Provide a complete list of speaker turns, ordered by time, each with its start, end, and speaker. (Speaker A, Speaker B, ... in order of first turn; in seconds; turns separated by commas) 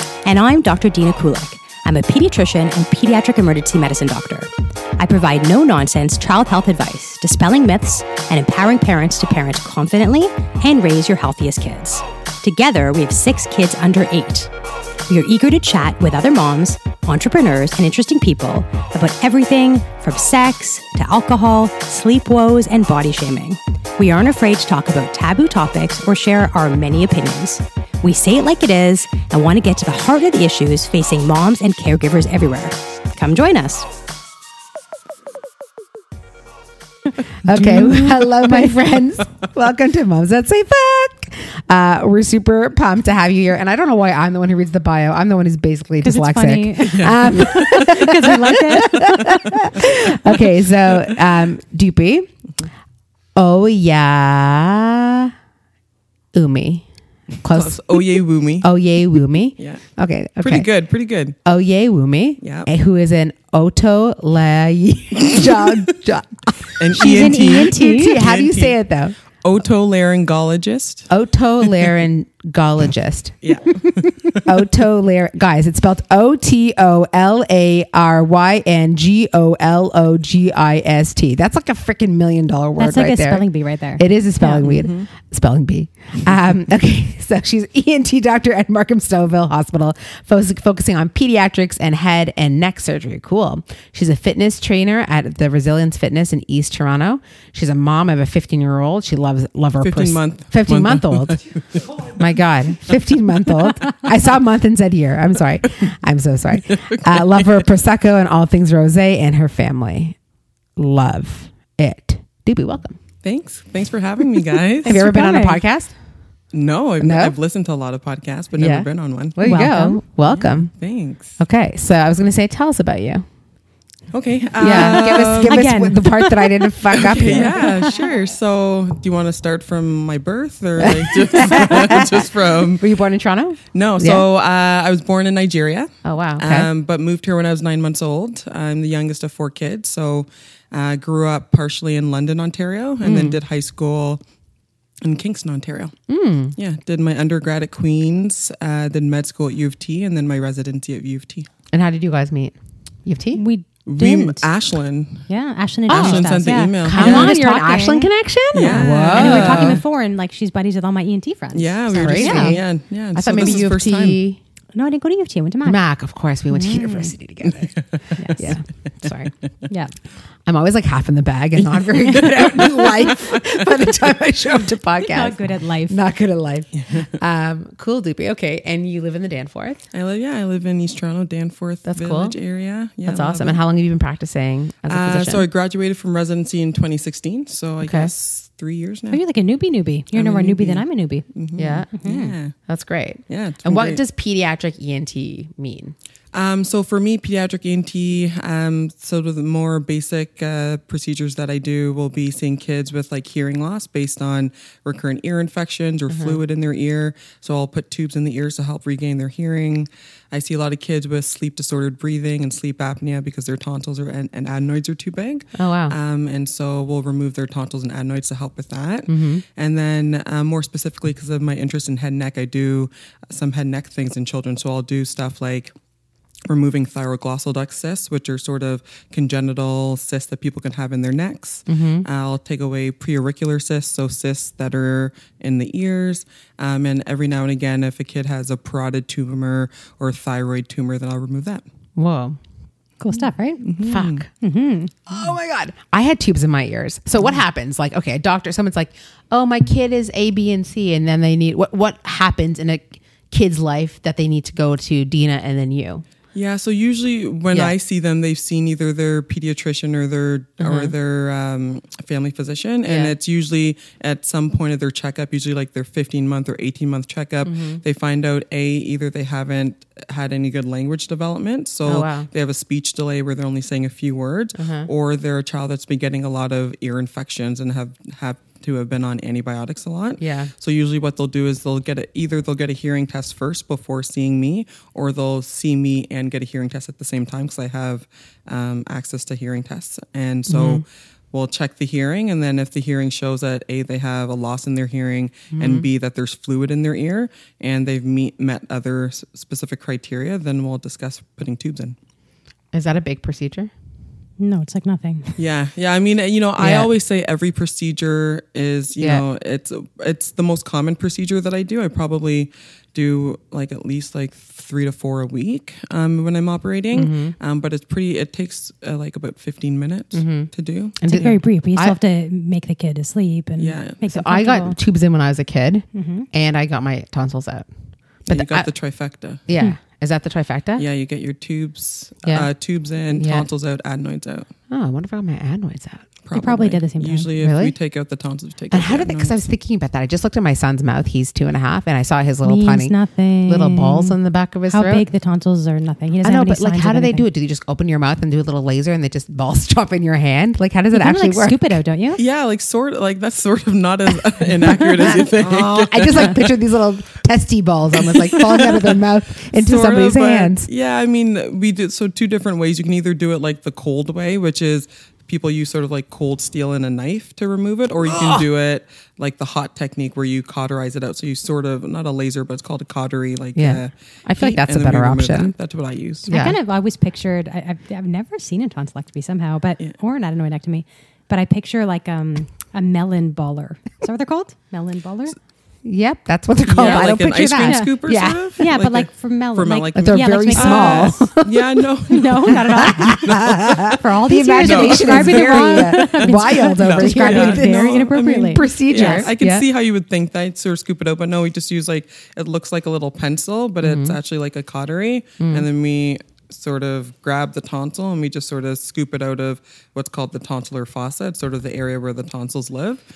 Speaker A: 0.2-14.5, Speaker A: 15.1-33.9, Speaker B: 37.4-52.3, Speaker A: 37.6-38.1, Speaker C: 37.6-38.2, Speaker A: 46.0-49.9, Speaker C: 46.8-47.8, Speaker B: 53.3-55.3, Speaker B: 56.3-56.9, Speaker C: 57.4-58.7, Speaker B: 57.4-60.7, Speaker C: 59.6-59.8, Speaker C: 60.4-61.4, Speaker B: 61.4-69.1, Speaker C: 62.4-62.7, Speaker C: 65.2-65.5, Speaker C: 66.8-68.8, Speaker A: 66.9-68.2, Speaker C: 69.4-71.1, Speaker B: 71.1-83.5, Speaker C: 73.4-74.6, Speaker A: 82.8-84.7, Speaker B: 84.0-101.4, Speaker C: 84.6-85.0, Speaker C: 99.8-101.8, Speaker B: 101.9-110.2, Speaker C: 106.7-107.5, Speaker B: 110.8-113.0, Speaker C: 113.2-115.0, Speaker B: 114.8-115.9, Speaker A: 114.8-115.6, Speaker C: 116.5-119.4, Speaker B: 117.0-117.3, Speaker B: 118.5-120.7, Speaker A: 119.4-120.0, Speaker C: 120.3-121.4, Speaker B: 121.4-123.2, Speaker C: 124.1-125.6, Speaker B: 124.6-127.8, Speaker A: 124.6-127.9, Speaker C: 126.9-132.9, Speaker B: 130.8-134.2, Speaker C: 133.7-144.2, Speaker B: 136.0-136.7, Speaker B: 143.0-143.4, Speaker C: 145.0-145.9, Speaker B: 146.1-146.6, Speaker C: 146.6-151.5, Speaker B: 151.7-153.4, Speaker A: 153.3-154.5, Speaker C: 153.8-155.3, Speaker A: 155.3-158.1, Speaker C: 155.9-157.3, Speaker B: 155.9-156.3, Speaker B: 156.8-159.8, Speaker C: 158.5-159.8, Speaker A: 158.6-162.6, Speaker C: 161.5-164.2, Speaker B: 161.9-162.6, Speaker B: 163.2-164.4, Speaker A: 164.7-165.8, Speaker B: 165.7-167.7, Speaker A: 166.5-167.1, Speaker C: 167.4-168.0, Speaker A: 168.2-168.5, Speaker B: 168.4-169.3, Speaker B: 170.4-179.8, Speaker C: 172.2-173.1, Speaker A: 175.0-176.0, Speaker C: 179.9-183.6, Speaker B: 181.8-182.4, Speaker B: 183.0-185.5, Speaker C: 184.9-189.2, Speaker B: 187.8-188.1, Speaker A: 189.1-191.2, Speaker C: 190.1-192.6, Speaker B: 191.6-191.9, Speaker A: 191.9-192.3, Speaker B: 192.7-195.9, Speaker C: 193.3-194.0, Speaker C: 196.3-225.7, Speaker B: 206.1-206.4, Speaker B: 215.5-215.9, Speaker B: 219.1-219.4, Speaker C: 226.5-241.7, Speaker B: 231.7-232.1, Speaker B: 242.0-242.4, Speaker A: 243.0-243.7, Speaker C: 243.6-244.2, Speaker B: 243.8-244.3, Speaker A: 244.4-244.9, Speaker B: 245.1-256.1, Speaker C: 256.3-302.0, Speaker B: 260.6-260.9, Speaker B: 262.9-263.1, Speaker B: 267.4-267.8, Speaker B: 271.9-272.3, Speaker B: 274.6-274.9, Speaker B: 280.2-280.5, Speaker B: 290.5-290.8, Speaker B: 295.5-295.9, Speaker B: 302.7-303.7, Speaker A: 304.4-305.4, Speaker C: 305.4-321.3, Speaker B: 306.6-306.9, Speaker B: 316.9-317.4, Speaker B: 320.1-322.0, Speaker A: 321.0-324.8, Speaker C: 323.6-324.0, Speaker B: 324.1-327.7, Speaker A: 325.9-326.3, Speaker B: 328.3-328.7, Speaker C: 328.3-329.4, Speaker B: 329.5-330.9, Speaker C: 330.8-334.5, Speaker B: 333.1-333.5, Speaker B: 334.7-336.1, Speaker C: 336.2-339.4, Speaker A: 336.3-337.3, Speaker B: 337.4-337.8, Speaker B: 338.7-342.9, Speaker A: 342.4-344.2, Speaker B: 343.4-345.1, Speaker A: 344.7-347.3, Speaker B: 346.2-351.8, Speaker A: 350.9-352.2, Speaker C: 352.2-356.6, Speaker B: 354.6-360.7, Speaker C: 358.0-358.9, Speaker C: 359.5-376.4, Speaker B: 368.0-368.5, Speaker B: 373.6-375.6, Speaker B: 376.3-376.6, Speaker A: 376.3-385.4, Speaker B: 385.9-388.6, Speaker C: 386.7-394.0, Speaker A: 386.8-387.1, Speaker A: 387.6-391.3, Speaker B: 389.9-391.8, Speaker A: 392.1-399.3, Speaker B: 392.4-399.7, Speaker C: 394.6-413.0, Speaker B: 403.8-404.2, Speaker B: 405.4-405.7